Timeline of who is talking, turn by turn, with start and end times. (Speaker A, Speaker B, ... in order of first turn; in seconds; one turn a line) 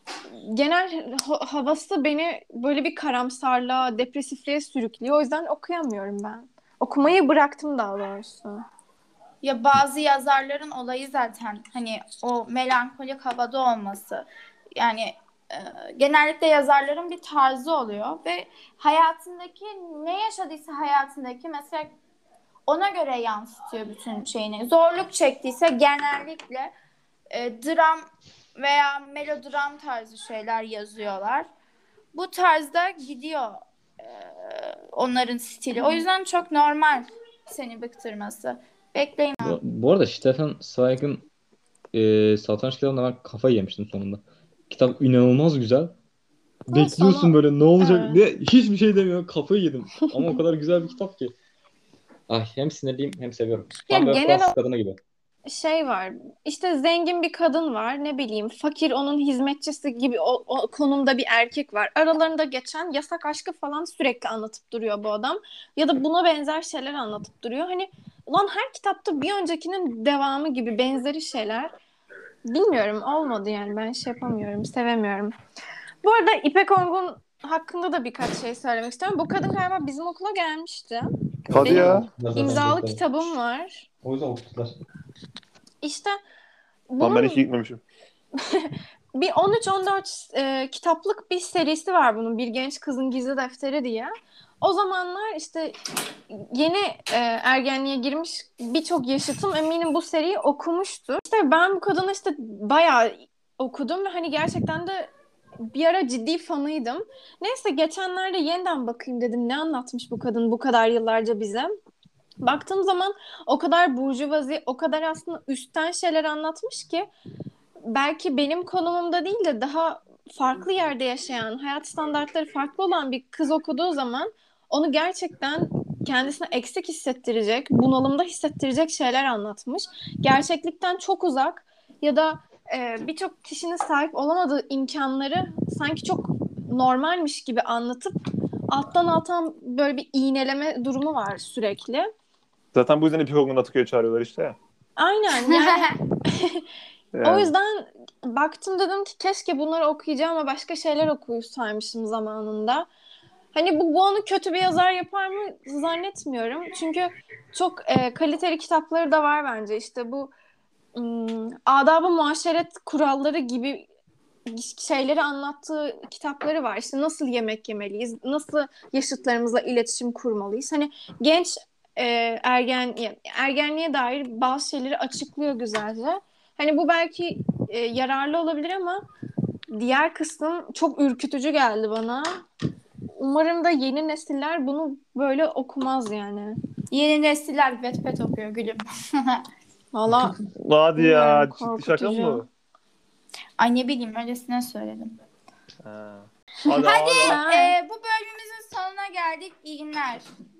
Speaker A: 0.3-8.6
Speaker B: 9.4-21.9
Speaker B: 22.7-26.7
Speaker B: 27.3-31.5
Speaker B: 32.1-39.6
Speaker A: 35.8-36.0
Speaker C: 39.4-41.3
Speaker C: 41.9-46.0
Speaker C: 46.7-51.3
Speaker A: 46.7-48.2
Speaker C: 52.3-55.0
Speaker A: 53.9-54.6
Speaker A: 55.5-71.7
Speaker A: 72.5-75.3
Speaker A: 76.0-83.9
Speaker D: 81.5-82.1
Speaker C: 81.5-83.3
Speaker C: 84.0-84.8
Speaker A: 85.8-86.2
Speaker A: 86.9-87.4
Speaker D: 87.0-87.8
Speaker A: 88.4-95.8
Speaker A: 96.3-111.7
Speaker A: 112.4-117.1
Speaker A: 117.8-138.2
Speaker A: 138.7-142.1
Speaker D: 142.7-144.6
Speaker A: 145.0-146.7
Speaker B: 145.5-145.9
Speaker D: 147.1-147.5
Speaker A: 147.2-152.9
Speaker A: 153.5-160.3
Speaker A: 161.0-163.9
Speaker A: 164.5-179.0
Speaker A: 179.7-182.4
Speaker A: 183.2-186.6
Speaker B: 186.9-189.4
Speaker A: 189.9-190.4
Speaker D: 190.6-192.5
Speaker A: 191.0-192.4
Speaker B: 193.6-195.2
Speaker D: 195.8-197.4
Speaker B: 196.7-200.3
Speaker A: 196.7-197.8